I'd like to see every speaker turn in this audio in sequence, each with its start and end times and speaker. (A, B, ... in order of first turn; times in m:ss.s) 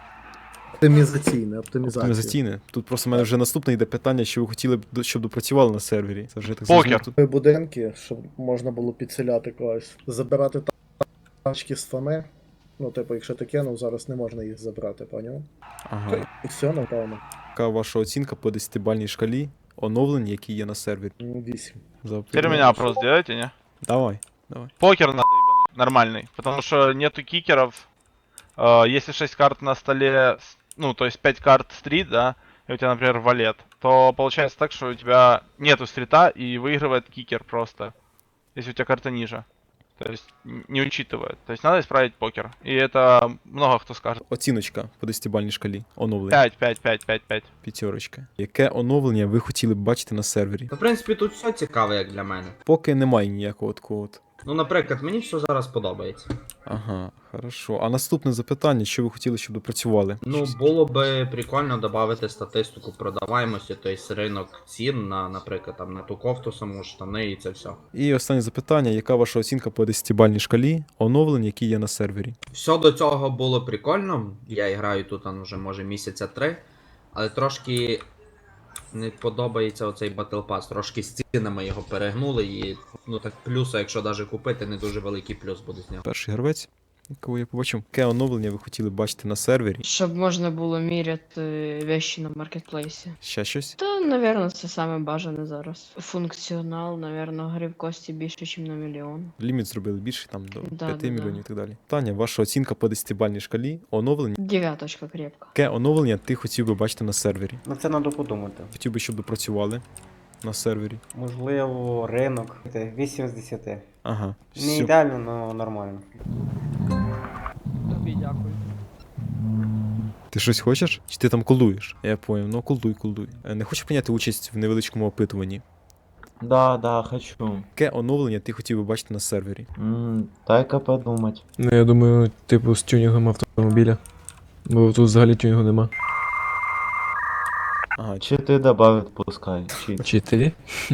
0:00.8-0:02.4 A
0:01.8-0:07.1 B
0:06.7-0:07.0 C
0:07.2-0:10.7 A
0:11.4-0:12.3 A
0:12.8-0:15.5 A
0:15.9-0:16.3 B
0:16.1-0:17.2 A
0:17.6-0:21.2 B
0:21.2-0:21.8 A
0:22.0-0:22.7 B
0:22.3-0:23.5 C
0:22.4-0:23.0 A
0:23.8-0:24.7 B
0:24.8-0:27.9 C
0:28.6-0:37.9 C
0:38.6-0:39.4 C
0:40.0-0:44.2 C
0:44.3-0:46.4 B
0:46.3-0:47.5 C
0:47.6-0:50.7 B
0:50.7-0:52.6 D
0:52.7-0:54.2 B
0:54.4-0:56.3 D
0:56.7-1:00.5 B
1:00.2-1:07.8 D
1:07.9-1:12.4 B
1:12.5-1:18.0 D
1:18.9-1:26.0 D
1:26.1-1:29.9 B
1:29.8-1:33.2 E
1:33.2-1:33.8 B
1:33.8-1:39.3 E
1:39.4-1:44.4 B
1:40.6-1:41.4 E
1:44.4-1:45.5 E
1:45.5-1:47.6 B
1:47.6-1:48.7 F
1:48.7-1:49.8 B
1:50.4-1:51.0 B
1:51.1-1:53.9 F
1:54.0-1:54.9 B
1:54.6-1:56.1 F
2:00.3-2:05.6 B
2:06.4-2:07.7 G
2:07.8-2:09.7 B
2:09.8-2:11.4 G
2:11.6-2:14.0 H
2:14.7-2:15.9 H
2:18.0-2:18.2 B
2:18.2-2:20.1 G
2:20.0-2:20.6 H